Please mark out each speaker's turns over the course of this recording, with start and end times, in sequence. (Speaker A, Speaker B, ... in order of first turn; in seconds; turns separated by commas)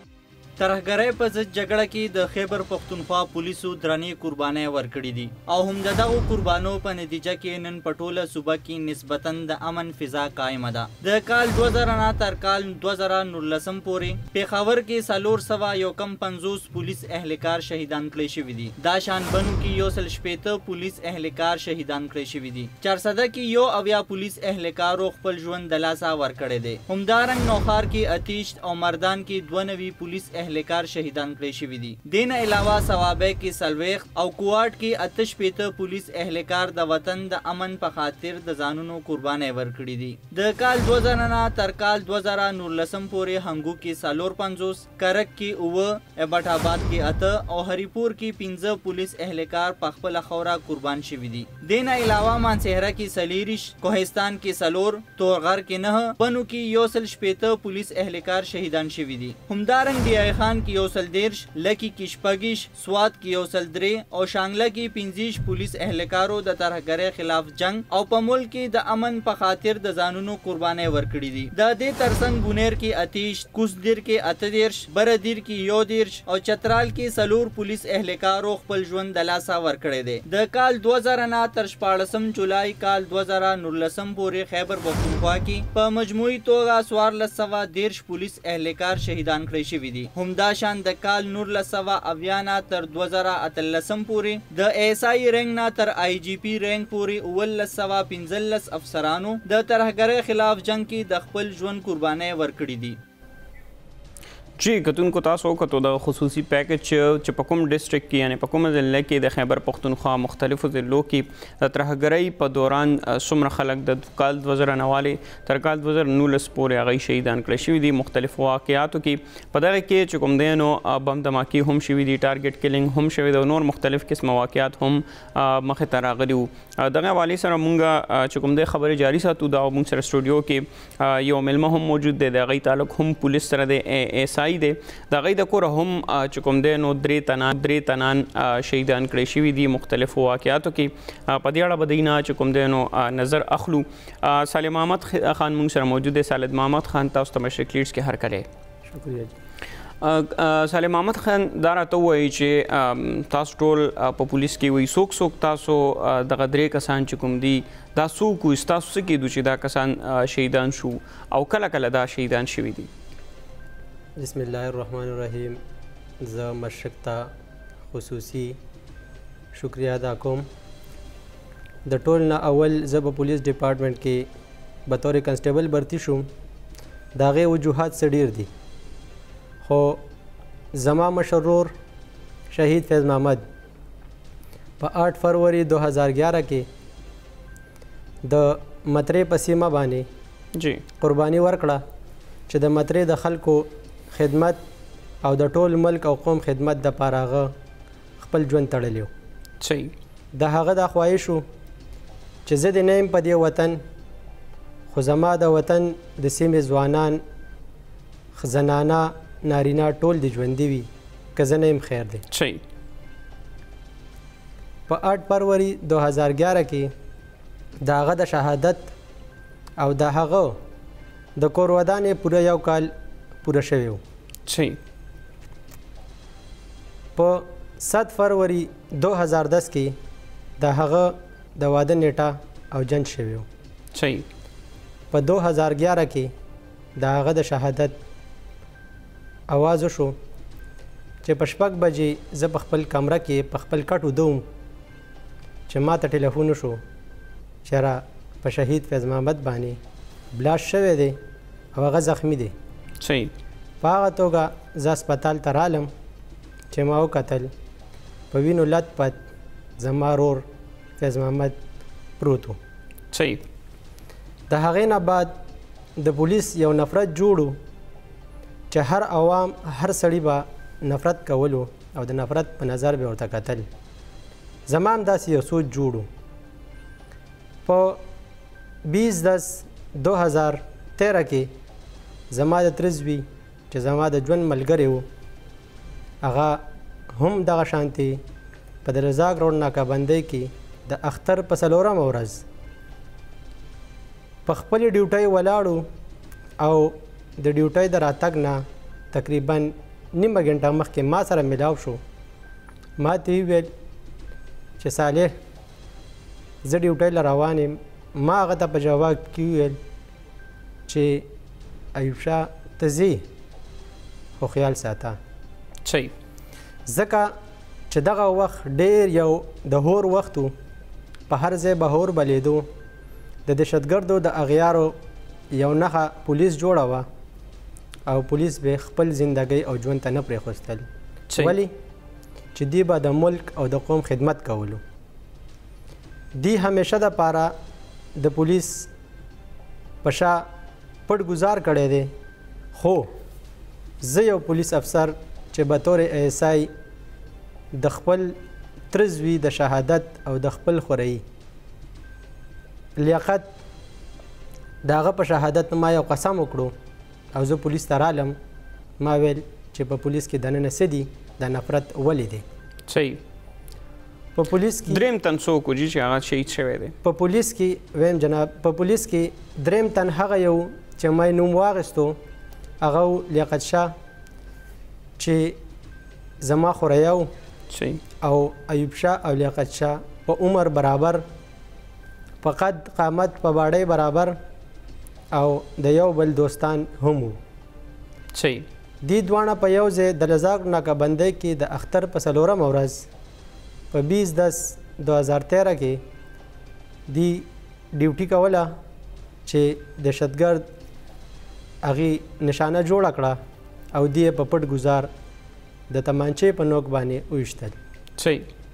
Speaker A: 0.6-103.0, Speaker B: 104.6-148.5, Speaker C: 148.9-149.3, Speaker B: 150.0-162.9, Speaker C: 164.2-165.6, Speaker C: 166.2-167.3, Speaker C: 167.9-168.6, Speaker C: 169.5-170.5, Speaker C: 171.8-174.3, Speaker C: 174.9-176.3, Speaker C: 177.2-178.5, Speaker C: 179.6-180.0, Speaker C: 180.7-181.7, Speaker C: 182.5-183.4, Speaker C: 184.8-186.7, Speaker C: 188.2-190.1, Speaker B: 190.6-190.8, Speaker C: 191.0-191.8, Speaker C: 192.5-194.6, Speaker C: 195.2-197.5, Speaker C: 198.2-199.1, Speaker B: 199.6-199.9, Speaker C: 200.3-201.4, Speaker C: 202.4-203.8, Speaker C: 204.9-207.2, Speaker C: 208.3-212.2, Speaker B: 212.3-212.6, Speaker C: 214.9-216.9, Speaker C: 217.8-218.9, Speaker C: 219.8-220.6, Speaker C: 221.4-222.9, Speaker C: 223.4-224.0, Speaker B: 224.5-224.8, Speaker C: 227.2-230.0, Speaker C: 230.6-233.5, Speaker B: 233.9-234.2, Speaker C: 235.1-236.3, Speaker C: 237.0-237.9, Speaker C: 239.5-240.2, Speaker C: 241.2-244.4, Speaker C: 245.7-246.8, Speaker C: 247.6-249.8, Speaker C: 250.3-251.2, Speaker C: 251.7-252.5, Speaker B: 253.0-253.3, Speaker C: 253.8-255.9, Speaker C: 256.7-257.5, Speaker C: 258.3-259.2, Speaker C: 259.8-260.4, Speaker C: 261.0-261.6, Speaker C: 262.2-262.6, Speaker B: 263.1-263.4, Speaker C: 264.5-265.4, Speaker C: 266.0-267.6, Speaker C: 268.7-273.7, Speaker C: 274.7-276.1, Speaker C: 277.6-278.0, Speaker C: 278.9-281.5, Speaker C: 282.3-285.1, Speaker C: 286.2-288.2, Speaker C: 288.8-292.4, Speaker C: 294.4-295.9, Speaker C: 296.6-302.0, Speaker C: 303.0-303.7, Speaker C: 304.8-305.4, Speaker C: 306.6-309.8, Speaker C: 310.9-311.3, Speaker C: 311.9-313.3, Speaker C: 314.4-315.2, Speaker B: 315.8-316.1, Speaker C: 316.9-317.3, Speaker C: 317.9-320.5, Speaker C: 321.3-322.7, Speaker C: 323.4-324.9, Speaker C: 325.5-327.1, Speaker C: 328.1-331.7, Speaker B: 331.3-331.6, Speaker C: 332.5-334.8, Speaker C: 336.4-337.5, Speaker C: 338.1-338.9, Speaker C: 340.0-340.5, Speaker C: 341.1-342.1, Speaker C: 342.7-343.1, Speaker C: 344.0-346.7, Speaker C: 347.7-348.4, Speaker C: 348.9-351.2, Speaker C: 353.0-353.5, Speaker C: 354.8-356.7, Speaker C: 357.3-358.4, Speaker C: 359.0-362.4, Speaker B: 362.9-363.2, Speaker C: 364.3-365.0, Speaker B: 364.9-366.9, Speaker C: 367.0-372.2, Speaker C: 372.8-373.9, Speaker C: 375.2-375.6, Speaker C: 376.4-377.3, Speaker B: 377.7-378.0, Speaker C: 378.2-381.2, Speaker C: 382.4-384.4, Speaker C: 385.3-387.4, Speaker B: 388.3-388.6, Speaker C: 389.0-393.1, Speaker C: 393.9-396.0, Speaker C: 397.1-398.7, Speaker C: 399.4-400.6, Speaker C: 401.8-403.4, Speaker C: 403.9-405.1, Speaker C: 405.9-407.8, Speaker B: 408.2-408.4